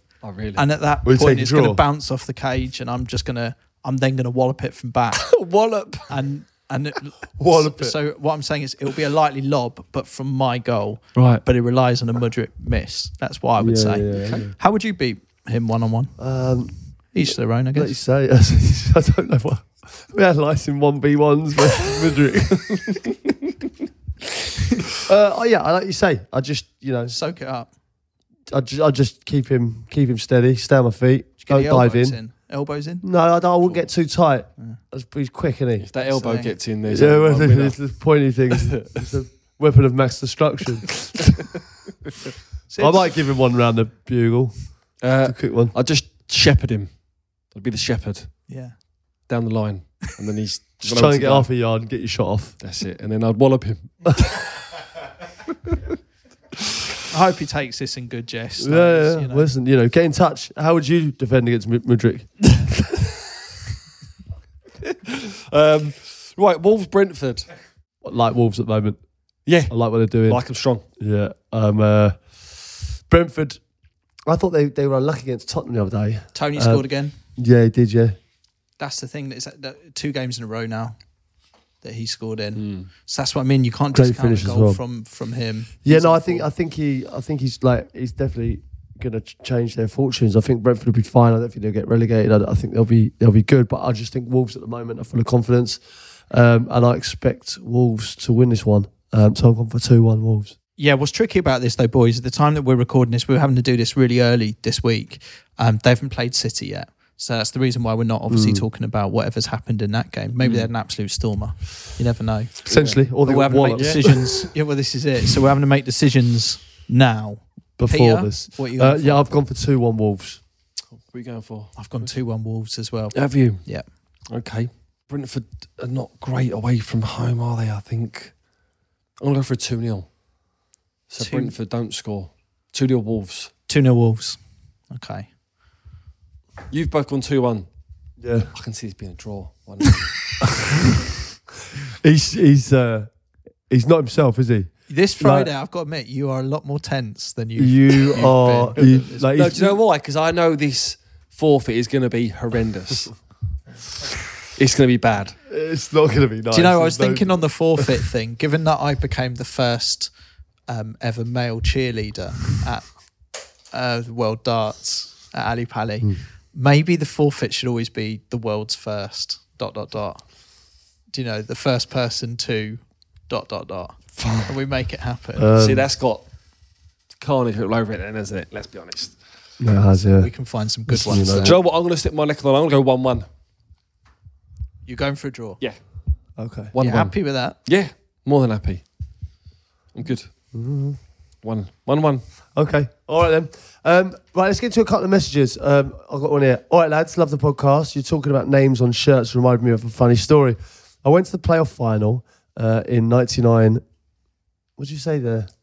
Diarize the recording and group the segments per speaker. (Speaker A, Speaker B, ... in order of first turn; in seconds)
Speaker A: 0.2-0.7, 5.2-6.1, 11.1-11.4, 35.8-37.8, 38.5-38.9, 45.0-46.9, 47.5-48.4, 49.3-51.5, 52.6-54.3, 64.8-67.5, 69.4-69.7, 70.2-70.8, 82.5-82.9, 110.4-110.7, 112.7-113.0, 113.8-114.1, 121.0-122.1, 123.1-123.6, 124.3-128.3, 129.2-130.1, 131.1-133.5, 136.7-137.7, 138.5-140.1, 149.3-153.1, 154.6-155.3, 175.6-176.2, 177.2-179.2, 181.4-183.2, 186.7-187.1, 187.6-188.8, 189.9-190.3, 191.4-192.2
Speaker B: 0.6-5.3, 6.1-16.1, 17.1-17.9, 27.1-27.7, 31.4-33.0, 36.0-36.5, 42.7-43.1, 48.5-48.7, 57.1-59.5, 76.3-77.1, 78.8-81.0, 81.8-86.5, 100.8-119.2, 121.8-123.8, 131.2-131.5, 133.7-134.4, 134.9-135.3, 144.9-149.3, 156.5-160.1, 160.7-162.9, 163.7-170.2, 171.1-175.5, 180.2-181.6, 184.8-185.6, 186.8-187.6
Speaker C: 1.0-1.8, 7.4-8.0, 13.6-14.5, 16.2-16.7, 17.7-23.0, 25.0-27.1, 28.5-32.2, 33.0-35.9, 36.9-41.4, 42.8-45.7, 50.8-52.6, 58.6-62.4, 68.0-69.0, 69.7-70.4, 71.0-73.6, 74.3-76.8, 77.4-78.2, 83.9-84.8, 85.8-100.5, 108.3-108.6, 112.7-114.3, 117.8-120.4, 138.2-138.5, 142.0-143.1, 143.7-145.5, 147.6-149.8, 155.5-157.9, 174.2-174.5, 175.4-175.8, 179.6-180.3, 180.9-181.6, 186.4-186.7, 190.5-191.0, 192.6-203.8, 204.8-205.5